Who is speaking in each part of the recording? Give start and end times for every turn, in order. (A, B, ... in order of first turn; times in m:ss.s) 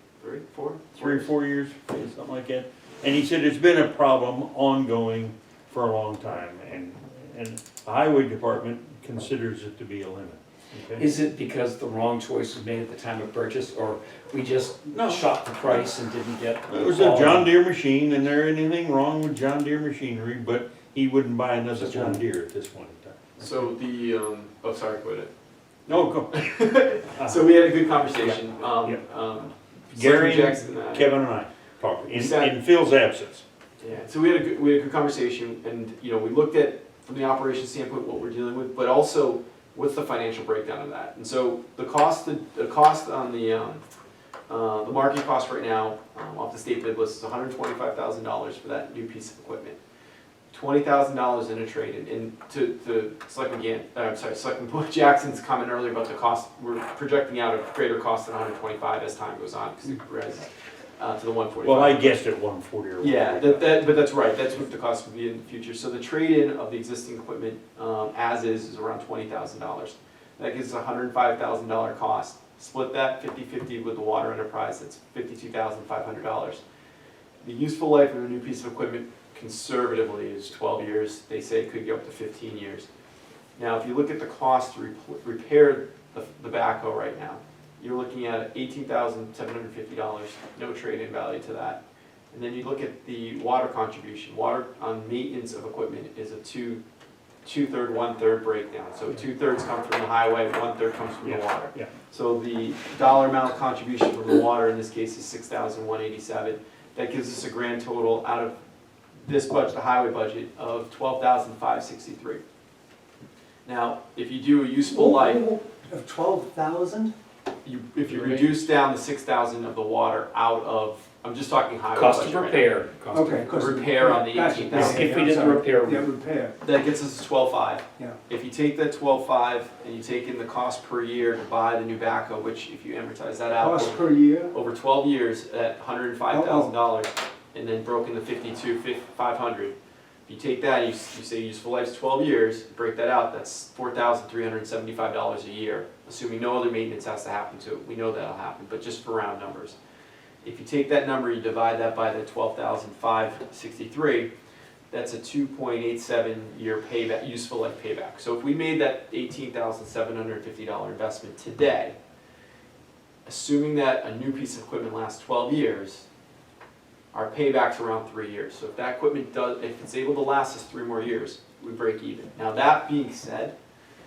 0:00.2-0:01.3 A
0:01.0-0:11.1 B
0:11.0-0:17.5 C
0:14.9-0:15.8 B
0:16.7-0:23.4 B
0:21.8-0:22.2 C
0:23.4-0:25.3 A
0:25.9-0:26.6 B
0:26.3-0:31.1 A
0:27.2-0:27.5 B
0:28.2-0:29.0 B
0:29.9-0:33.4 B
0:32.0-0:32.5 A
0:33.8-0:43.8 A
0:44.5-0:49.8 A
0:50.5-1:02.2 A
1:01.6-1:03.8 B
1:03.0-1:16.6 A
1:17.4-1:22.9 A
1:23.6-1:31.8 A
1:32.3-1:36.8 A
1:37.4-1:48.6 A
1:41.2-1:41.9 B
1:49.2-1:52.4 A
1:53.6-1:55.4 A
1:54.9-1:57.1 D
1:57.6-2:02.7 A
1:58.2-1:58.5 C
2:01.9-2:03.4 C
2:03.1-2:06.5 D
2:03.4-2:05.1 A
2:04.7-2:06.0 C
2:06.6-2:19.7 A
2:13.6-2:14.5 D
2:16.3-2:16.7 D
2:20.3-2:29.8 A
2:30.4-2:34.3 A
2:34.9-2:41.9 A
2:43.2-2:46.0 A
2:47.1-2:53.5 A